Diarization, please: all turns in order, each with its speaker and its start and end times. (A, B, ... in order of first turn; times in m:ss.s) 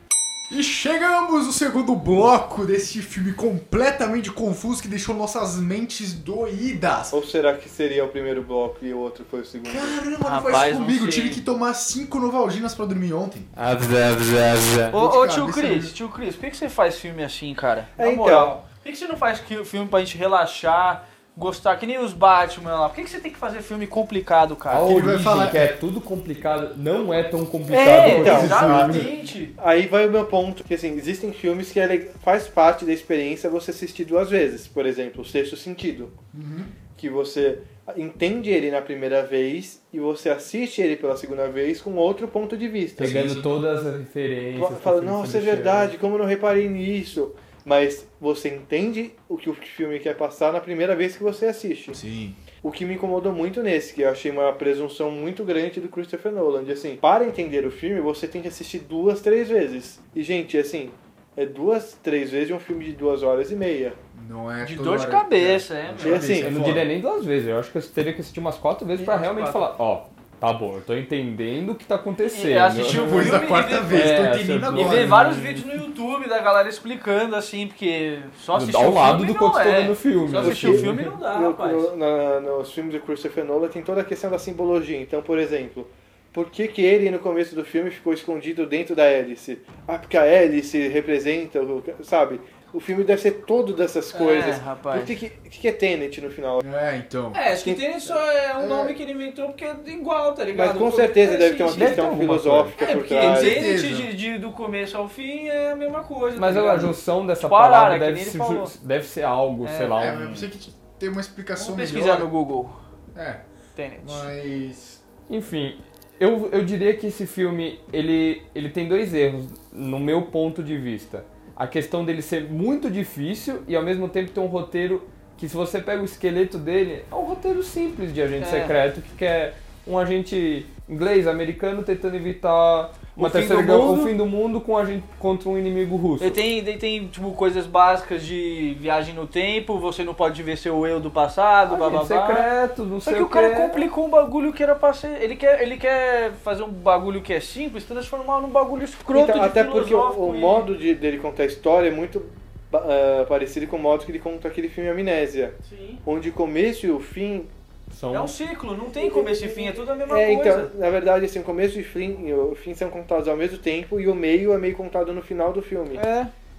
0:00.5-0:07.2 A
0:07.1-0:10.0 B
0:09.6-0:13.5 A
0:10.2-0:11.4 C
0:13.5-0:14.9 D
0:14.9-0:24.9 C
0:14.9-0:15.9 A
0:18.0-0:18.6 B
0:24.7-0:29.1 D
0:24.8-0:25.7 A
0:27.7-0:29.5 C
0:27.9-0:28.6 B
0:28.0-0:29.1 A
0:29.6-0:36.1 B
0:36.3-0:36.7 A
0:37.0-0:43.2 B
0:43.0-0:43.5 A
0:43.0-0:45.9 D
0:44.6-0:52.0 B
0:51.9-0:52.4 A
0:52.6-1:04.0 B
1:04.1-1:06.9 A
1:04.6-1:06.3 C
1:06.0-1:06.5 B
1:06.4-1:15.6 D
1:09.0-1:09.6 C
1:12.3-1:21.9 C
1:12.8-1:15.3 A
1:18.5-1:21.1 D
1:20.4-1:36.6 B
1:34.1-1:35.1 C
1:36.6-1:37.4 A
1:37.3-1:42.1 C
1:37.5-1:38.2 B
1:38.6-1:38.9 A
1:40.5-1:43.7 B
1:41.7-1:42.8 D
1:42.8-1:48.7 C
1:43.3-1:44.1 A
1:46.4-1:50.5 D
1:49.6-1:50.2 C
1:50.0-1:52.3 A
1:51.6-1:52.8 C
1:53.1-1:53.4 A
1:53.8-1:54.2 C
1:54.0-1:55.0 A
1:55.3-2:16.4 D
2:08.4-2:08.7 C
2:13.2-2:14.1 C
2:16.2-2:22.5 C
2:21.6-2:23.9 D
2:23.0-2:30.7 C
2:29.1-2:37.5 B
2:35.6-2:36.0 C
2:37.9-2:38.4 D
2:38.1-2:40.7 C
2:39.0-2:46.0 B
2:45.9-2:46.3 C